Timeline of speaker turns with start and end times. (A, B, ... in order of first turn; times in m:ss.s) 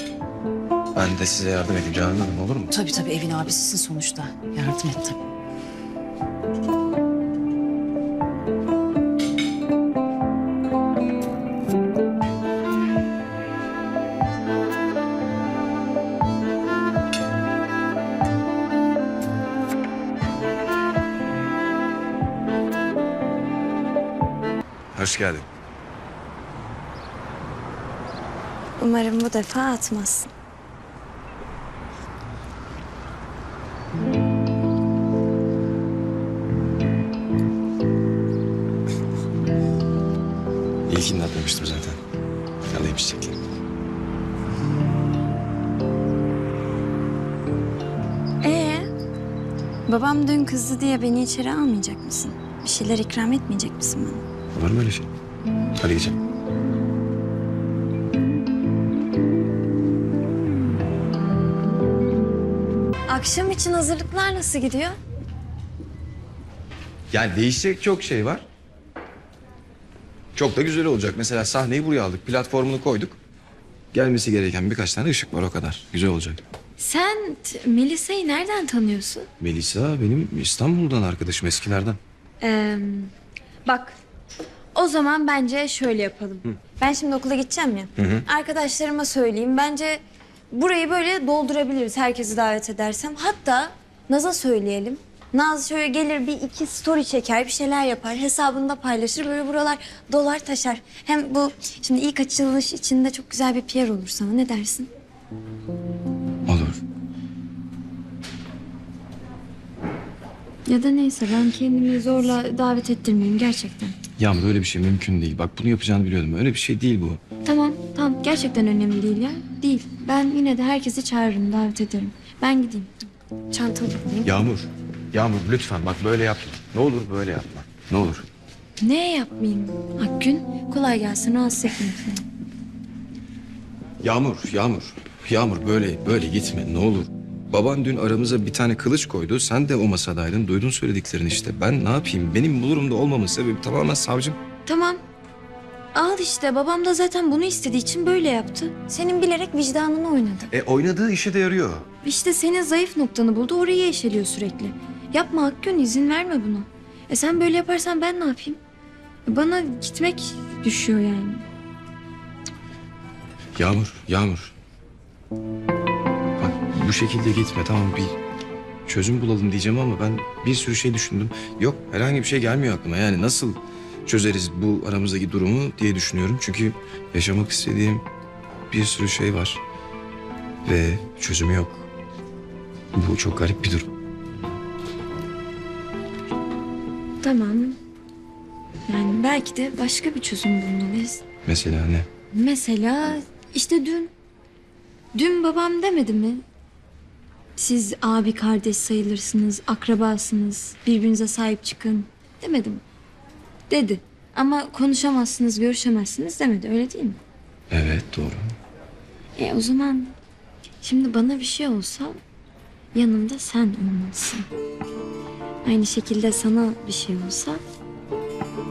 0:01.0-0:02.7 A
0:02.7-0:05.2 B
0:24.9-0:25.5 A
0:28.8-0:30.3 C
0:40.9-0:42.0 A
0:42.7-0:43.4 A
0:48.4-0:48.9 C
0:49.9-0:54.2 C
0:54.5-0:55.1 A
0:55.8-0:56.2 A
1:03.1-1:05.0 C
1:07.1-1:08.4 A
1:10.4-1:13.2 A
1:13.9-1:16.4 A
1:16.8-1:19.3 C
1:19.4-1:22.0 A
1:22.4-1:23.1 C
1:23.7-1:24.0 C
1:24.8-1:44.9 C
1:28.0-1:28.2 A
1:46.5-1:46.8 A
1:50.7-1:54.0 C
1:54.2-1:57.2 A
1:57.4-2:02.9 C
2:03.5-2:04.2 C
2:04.2-2:08.3 A
2:08.8-2:12.2 C
2:14.0-2:24.4 A
2:24.7-2:25.0 C
2:25.9-2:30.5 C
2:30.5-2:31.9 A
2:32.0-2:38.6 C
2:39.3-2:41.5 C
2:43.6-2:44.5 A
2:46.4-2:48.2 A
2:48.9-2:58.0 A
2:58.7-2:59.6 A
3:00.6-3:01.9 A
3:02.9-3:03.9 A
3:07.2-3:07.8 C
3:08.9-3:11.2 C
3:11.4-3:12.1 A
3:12.3-3:14.1 C
3:15.2-3:16.4 C
3:17.6-3:22.8 C
3:23.7-3:27.2 C
3:27.7-3:28.6 A
3:29.4-3:30.2 C
3:30.8-3:32.2 C
3:32.9-3:34.5 C
3:35.6-3:37.6 C